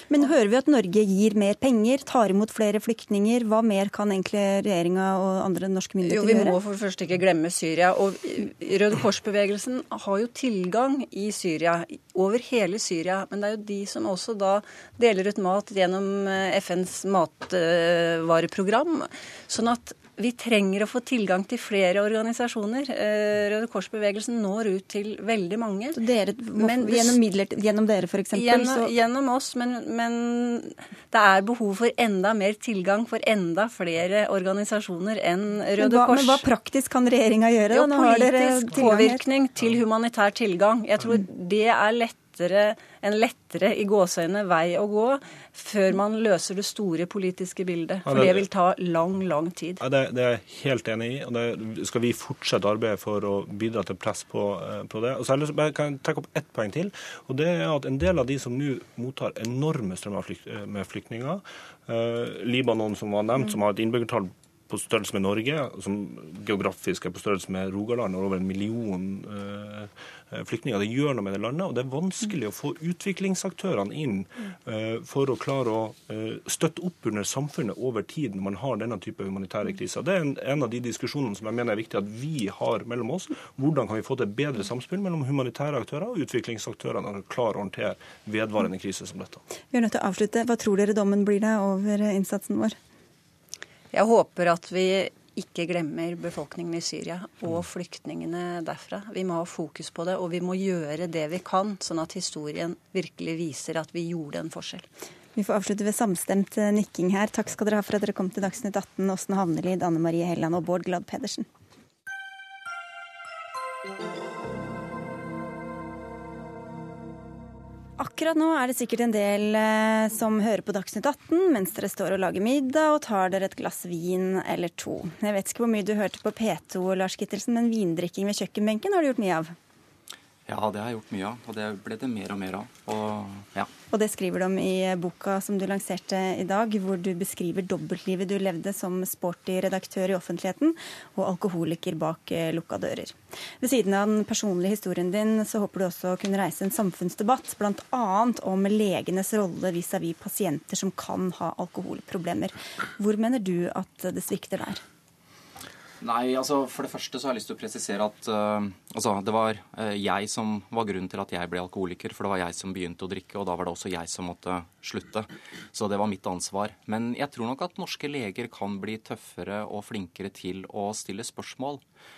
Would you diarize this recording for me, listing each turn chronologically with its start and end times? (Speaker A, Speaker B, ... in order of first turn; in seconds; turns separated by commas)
Speaker A: 0.1-6.5, Speaker B: 6.0-26.0, Speaker A: 26.0-28.9, Speaker B: 26.6-27.2, Speaker B: 28.3-36.5, Speaker A: 35.8-39.2, Speaker B: 37.7-49.8, Speaker C: 48.0-48.5, Speaker C: 49.8-89.4, Speaker A: 89.7-92.8, Speaker B: 93.9-104.9, Speaker A: 105.3-111.5, Speaker A: 118.0-129.5, Speaker D: 130.5-133.7, Speaker A: 133.9-154.8, Speaker D: 156.0-171.8